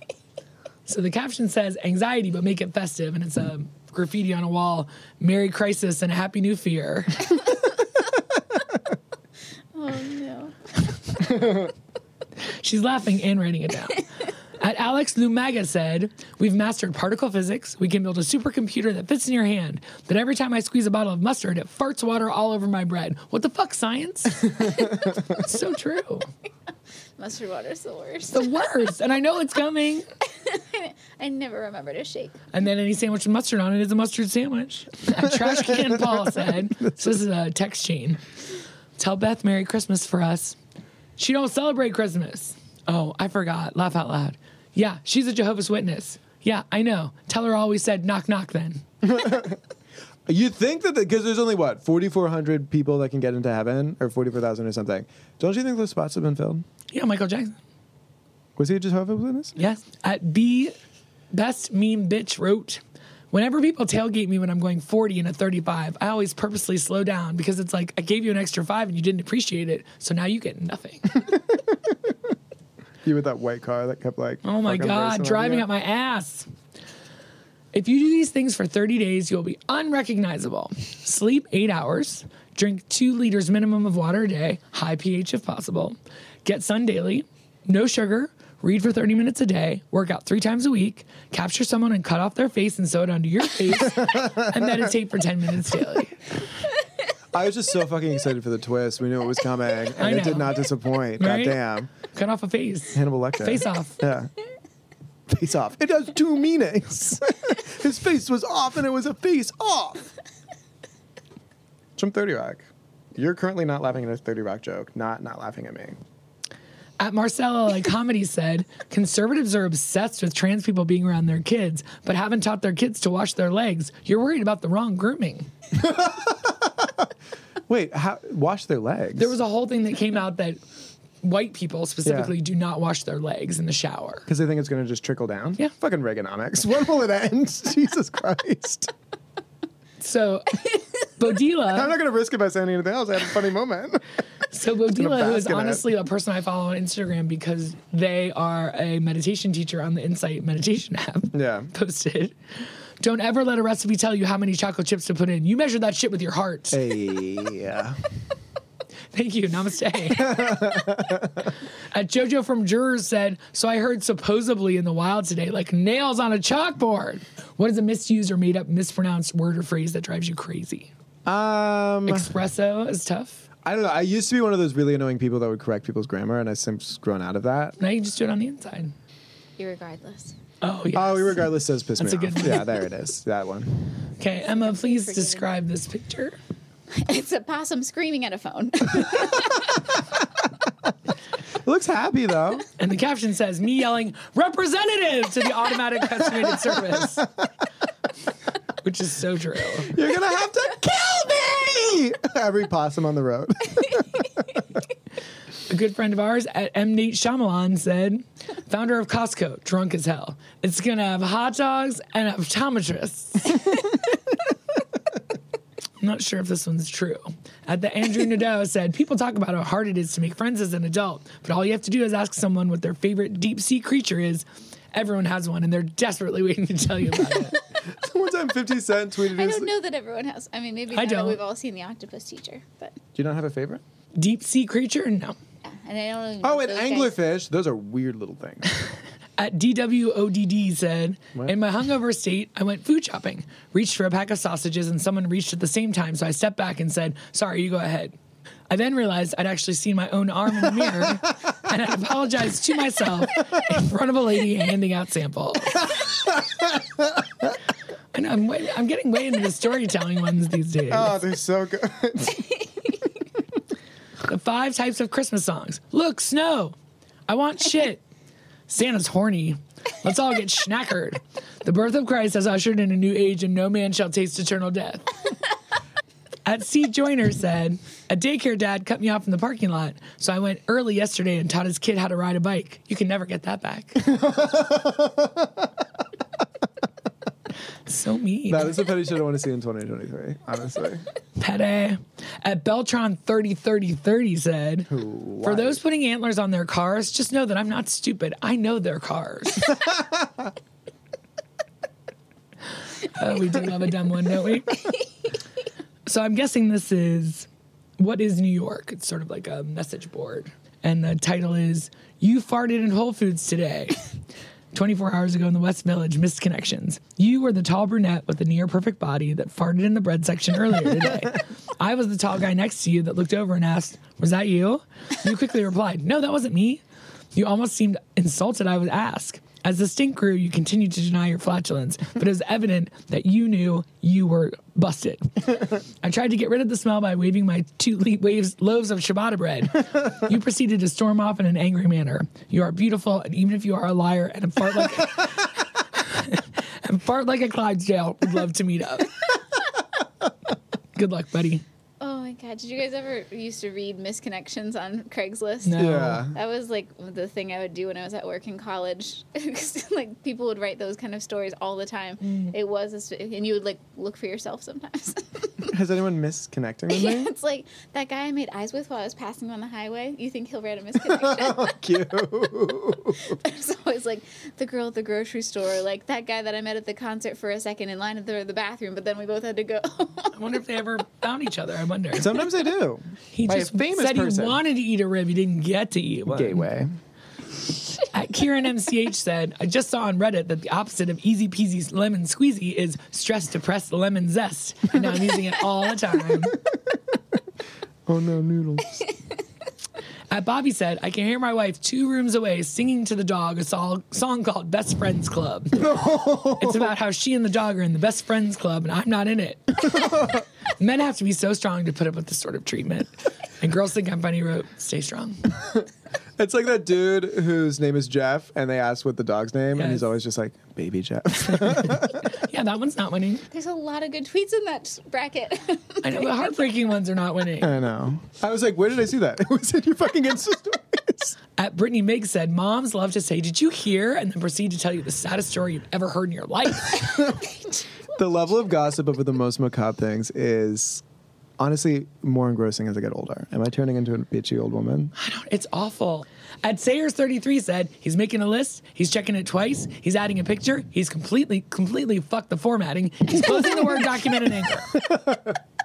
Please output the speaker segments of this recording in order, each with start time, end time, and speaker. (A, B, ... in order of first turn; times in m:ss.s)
0:00.8-0:07.4 A
0:09.7-0:10.6 B
0:12.5-0:26.3 A
0:27.2-0:28.5 B
0:28.3-0:30.1 A
0:30.3-0:32.4 B
0:32.5-0:38.2 A
0:35.2-0:36.4 C
0:39.0-0:40.6 A
0:41.2-0:48.8 A
0:49.0-0:49.6 C
0:50.3-0:56.6 C
0:56.9-0:57.6 A
0:58.6-0:59.6 C
0:59.6-1:00.7 A
1:01.3-1:11.3 A
1:11.3-1:12.0 C
1:13.0-1:15.6 C
1:14.4-1:16.5 A
1:17.7-1:36.4 A
1:34.0-1:34.8 C
1:37.3-1:41.9 C
1:40.0-1:40.6 A
1:41.2-1:41.6 A
1:42.1-1:44.0 A
1:42.9-1:44.3 C
1:45.3-1:50.1 C
1:52.0-1:56.0 C
1:57.0-2:05.5 A
2:05.7-2:07.1 C
2:07.7-2:09.3 C
2:09.2-2:10.6 A
2:11.2-2:14.3 A
2:12.0-2:12.4 C
2:14.3-2:18.9 C
2:20.0-2:21.9 A
2:21.7-2:24.0 C
2:24.5-2:32.4 A
2:24.8-2:25.8 C
2:31.3-2:31.7 C
2:33.0-2:36.8 A
2:36.7-2:38.0 C
2:39.1-2:40.7 A
2:40.1-2:41.5 C
2:41.9-2:50.9 A
2:51.2-2:52.3 C
2:52.0-2:53.4 A
2:53.6-2:57.8 C
2:57.8-2:58.9 A
2:59.6-3:00.4 B
3:00.6-3:02.8 A
3:00.9-3:04.0 C
3:04.2-3:06.4 A
3:04.4-3:05.5 B
3:06.9-3:09.9 B
3:11.6-3:12.6 C
3:12.8-3:17.3 A
3:16.6-3:17.0 C
3:18.8-3:20.0 A
3:19.8-3:24.5 C
3:25.7-3:33.7 A
3:36.0-3:47.6 A
3:47.8-3:49.7 C
3:49.3-3:53.0 B
3:50.9-3:51.4 A
3:53.1-3:53.8 C
3:54.1-3:55.4 A
3:55.6-3:57.2 B
3:56.4-3:58.7 C
3:59.4-4:08.1 A
4:08.7-4:15.9 A
4:15.9-4:17.5 C
4:18.1-4:21.2 A
4:20.9-4:22.6 C
4:24.2-4:26.8 A
4:27.3-4:28.0 A
4:28.7-4:35.1 A
4:36.4-4:44.1 A
4:44.0-4:45.7 C
4:47.8-4:48.8 A
4:48.5-4:51.0 C
4:51.4-4:54.9 A
4:54.9-4:55.8 C
4:55.4-4:59.8 A
4:59.8-5:00.5 C
5:03.0-5:04.9 A
5:06.0-5:14.0 A
5:14.7-5:26.8 A
5:27.3-5:49.2 A
5:51.0-5:51.6 A
5:52.0-6:05.7 B
5:55.6-5:56.2 A
5:55.8-5:56.3 C
6:02.2-6:02.5 A
6:05.7-6:07.3 C
6:06.9-6:11.7 B
6:11.0-6:13.4 C
6:13.2-6:20.4 B
6:20.3-6:22.4 A
6:22.1-6:24.6 C
6:23.3-6:26.6 A
6:26.3-6:26.9 C
6:28.0-6:36.6 A
6:38.0-6:39.1 C
6:40.3-6:45.9 A
6:45.7-6:46.9 C
6:46.6-6:50.2 A
6:50.0-6:50.4 C
6:50.8-6:55.4 A
6:56.4-7:02.3 C
6:59.8-7:00.1 A
7:01.4-7:03.4 A
7:03.5-7:06.5 B
7:06.0-7:07.7 A
7:07.6-7:11.4 C
7:11.6-7:17.4 A
7:18.1-7:21.0 C
7:21.6-7:25.1 C
7:25.2-7:35.0 A
7:34.9-7:35.5 C